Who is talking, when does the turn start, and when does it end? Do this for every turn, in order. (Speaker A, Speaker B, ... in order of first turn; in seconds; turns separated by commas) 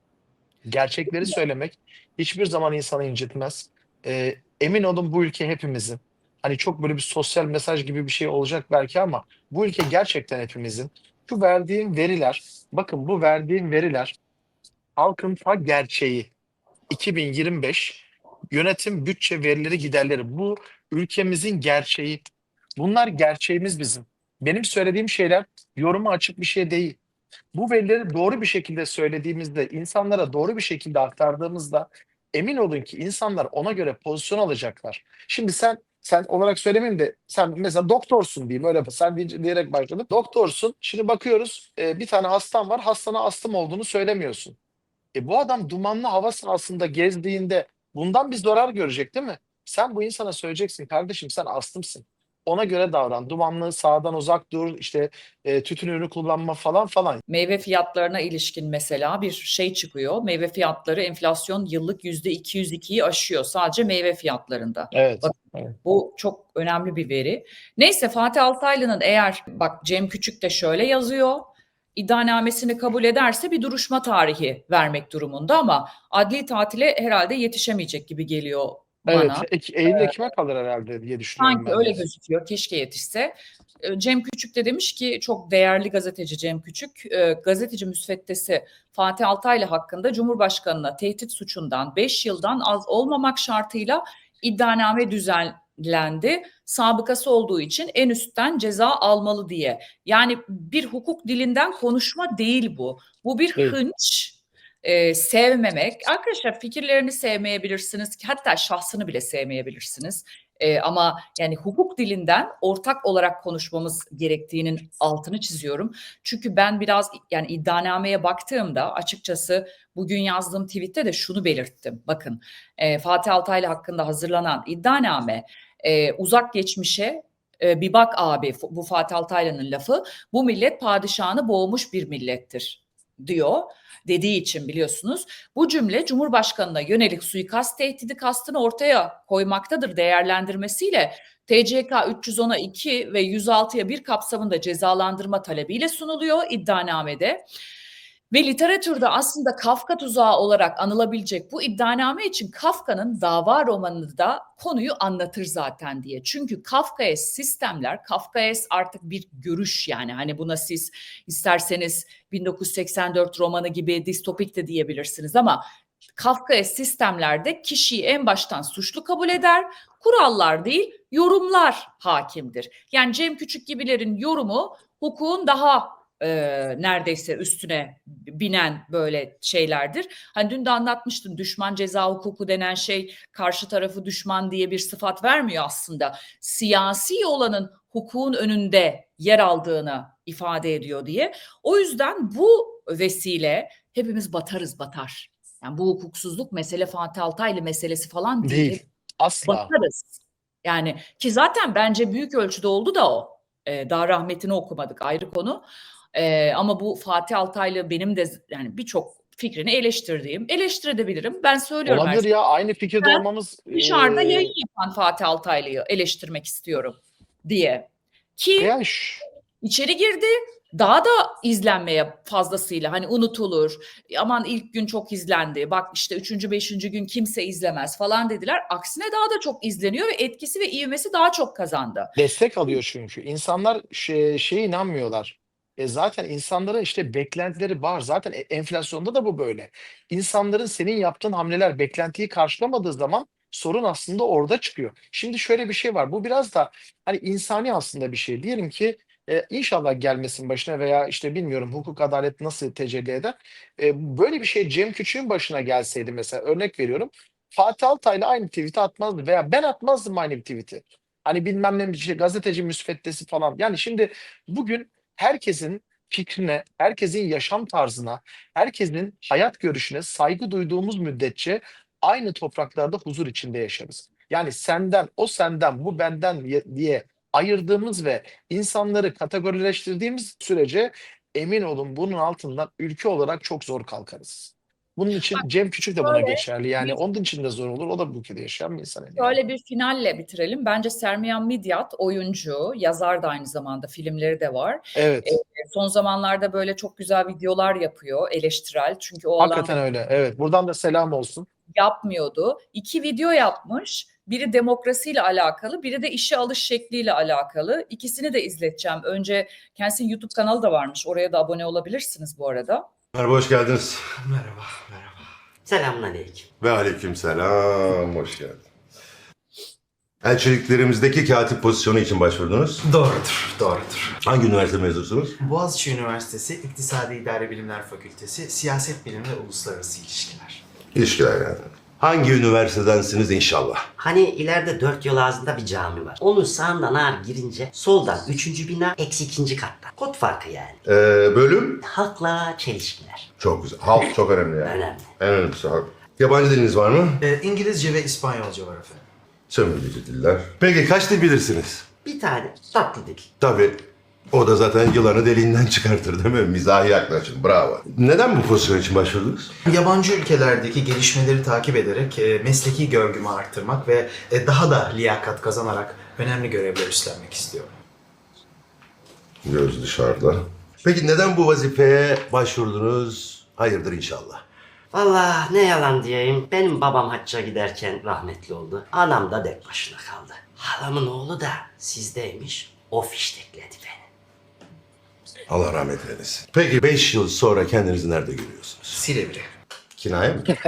Speaker A: 0.7-14.2, Speaker A: 14.9-16.3, Speaker A: 16.9-22.2, Speaker A: 22.8-27.0, Speaker A: 27.5-44.6, Speaker A: 45.1-57.2, Speaker B: 57.3-80.1, Speaker A: 64.9-65.7, Speaker A: 79.1-82.0, Speaker B: 81.4-147.4, Speaker B: 148.3-165.6, Speaker B: 166.2-198.8, Speaker A: 198.4-199.7, Speaker B: 199.4-212.3, Speaker A: 211.8-214.5, Speaker B: 213.7-218.7, Speaker A: 218.6-219.2, Speaker B: 219.6-232.1, Speaker A: 232.2-289.4, Speaker B: 286.0-287.0, Speaker B: 289.1-299.7, Speaker A: 294.9-295.3, Speaker A: 299.4-301.5, Speaker B: 301.8-312.8, Speaker C: 313.1-314.0, Speaker D: 314.2-315.2, Speaker E: 315.6-316.5, Speaker C: 316.6-318.6, Speaker C: 320.2-322.8, Speaker D: 322.8-324.1, Speaker C: 324.2-325.4, Speaker D: 325.4-330.6, Speaker C: 330.9-333.8, Speaker E: 334.0-340.8, Speaker C: 340.8-341.8, Speaker E: 341.9-343.2, Speaker C: 343.4-347.2, Speaker E: 344.6-345.1, Speaker D: 347.2-349.1, Speaker C: 349.5-351.9, Speaker E: 352.0-353.2, Speaker C: 353.4-359.5, Speaker D: 359.6-367.8, Speaker C: 369.4-374.4, Speaker E: 374.9-384.1, Speaker C: 385.5-389.0, Speaker D: 388.9-389.5, Speaker C: 390.0-390.5